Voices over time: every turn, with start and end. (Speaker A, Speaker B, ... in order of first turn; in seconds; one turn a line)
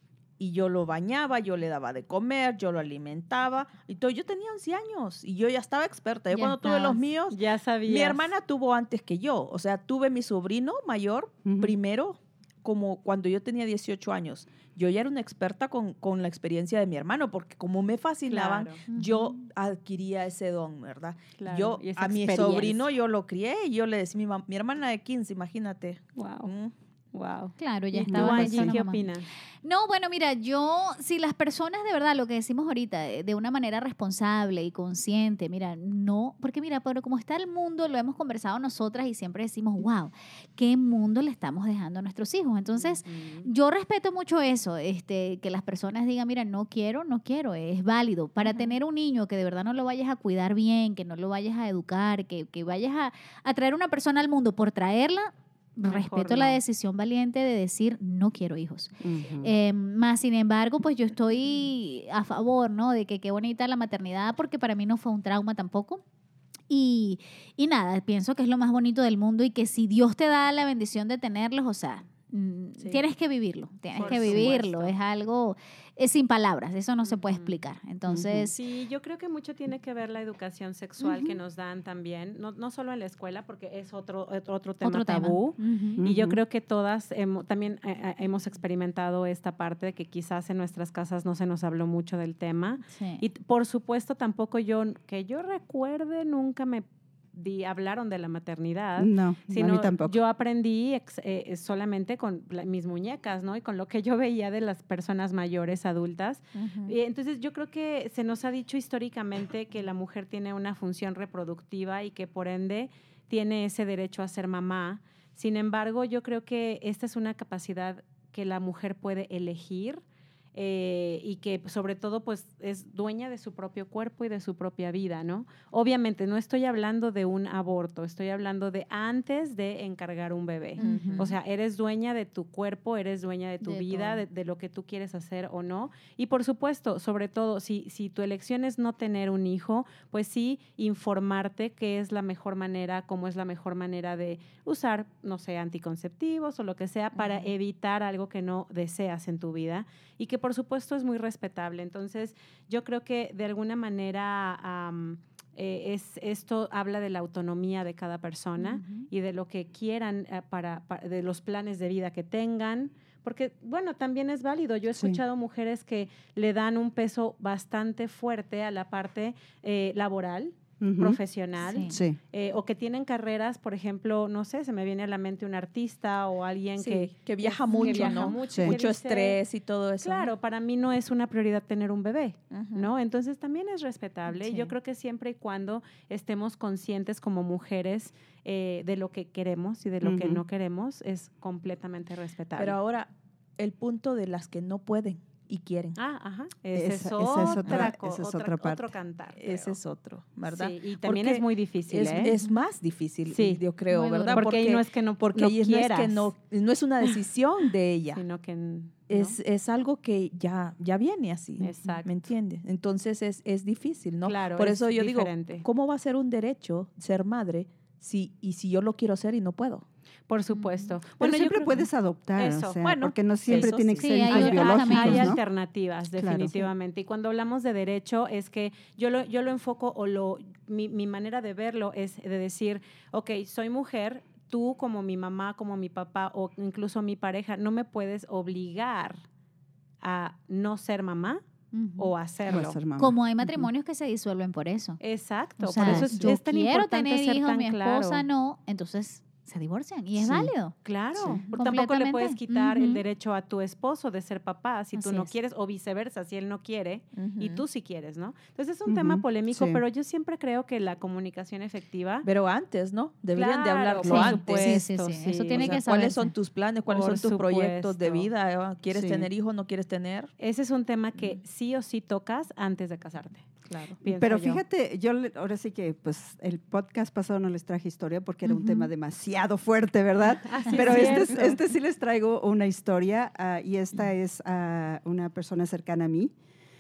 Speaker A: 0.4-26.7
Speaker B: 6.3-7.0
Speaker C: 7.3-8.3
Speaker D: 11.4-11.7
Speaker C: 18.3-18.8
Speaker B: 18.9-19.4
Speaker C: 21.4-22.8
Speaker C: 26.1-26.5
Speaker C: 27.1-29.3
Speaker B: 27.6-29.1
Speaker D: 28.1-28.7
Speaker B: 29.6-66.0
Speaker C: 42.8-43.5
Speaker C: 48.4-48.8
Speaker C: 55.8-56.6
Speaker D: 59.0-59.5
Speaker B: 66.7-78.6
Speaker C: 74.0-75.0
Speaker D: 74.0-74.5
Speaker C: 77.0-77.6
Speaker D: 78.1-78.5
Speaker C: 78.5-120.0
Speaker B: 81.0-81.4
Speaker B: 84.8-86.0
Speaker D: 86.0-86.4
Speaker B: 92.9-93.2
Speaker D: 99.0-100.2
Speaker A: 106.5-107.0
Speaker C: 120.5-179.4
Speaker B: 130.8-131.3
Speaker A: 130.8-131.3
Speaker B: 133.6-134.2
Speaker A: 147.2-147.5
Speaker B: 158.6-159.1
Speaker D: 164.9-165.2
Speaker D: 170.8-171.2
Speaker B: 171.6-172.0
Speaker D: 171.9-172.2
Speaker A: 176.8-180.3
Speaker B: 177.7-178.3
Speaker C: 180.0-192.8
Speaker A: 182.5-182.9
Speaker B: 184.3-184.7
Speaker D: 190.0-190.4
Speaker A: 192.6-196.0
Speaker C: 196.0-199.8
Speaker D: 196.7-198.9
Speaker A: 197.6-197.9
Speaker A: 199.4-208.2
Speaker C: 200.5-202.3
Speaker C: 203.3-203.6
Speaker B: 203.9-204.5
Speaker C: 204.3-206.3
Speaker C: 208.1-209.4
Speaker A: 209.1-219.8
Speaker C: 211.6-212.1
Speaker C: 214.2-215.7
Speaker C: 220.3-222.9
Speaker B: 220.6-220.8
Speaker D: 221.2-225.4
Speaker A: 222.8-224.2
Speaker C: 223.5-223.8
Speaker B: 224.0-225.3
Speaker C: 224.3-239.2
Speaker D: 226.2-226.7
Speaker C: 240.0-241.4
Speaker B: 241.7-242.1
Speaker C: 242.0-242.8
Speaker D: 242.5-243.7
Speaker B: 243.0-245.0
Speaker C: 245.0-248.3
Speaker B: 245.6-250.8
Speaker D: 245.8-246.3
Speaker D: 250.2-250.5
Speaker C: 250.8-262.3
Speaker D: 251.1-251.4
Speaker B: 251.3-253.0
Speaker B: 254.9-255.3
Speaker A: 257.1-257.6
Speaker D: 258.9-259.8
Speaker A: 262.2-264.8
Speaker C: 263.3-265.8
Speaker B: 264.1-266.3
Speaker A: 265.5-270.3
Speaker C: 266.9-268.3
Speaker D: 268.9-269.3
Speaker C: 270.4-273.5
Speaker A: 273.7-274.0
Speaker C: 274.0-274.6
Speaker D: 274.1-286.3
Speaker B: 278.4-278.9
Speaker C: 280.5-281.6
Speaker A: 280.7-281.6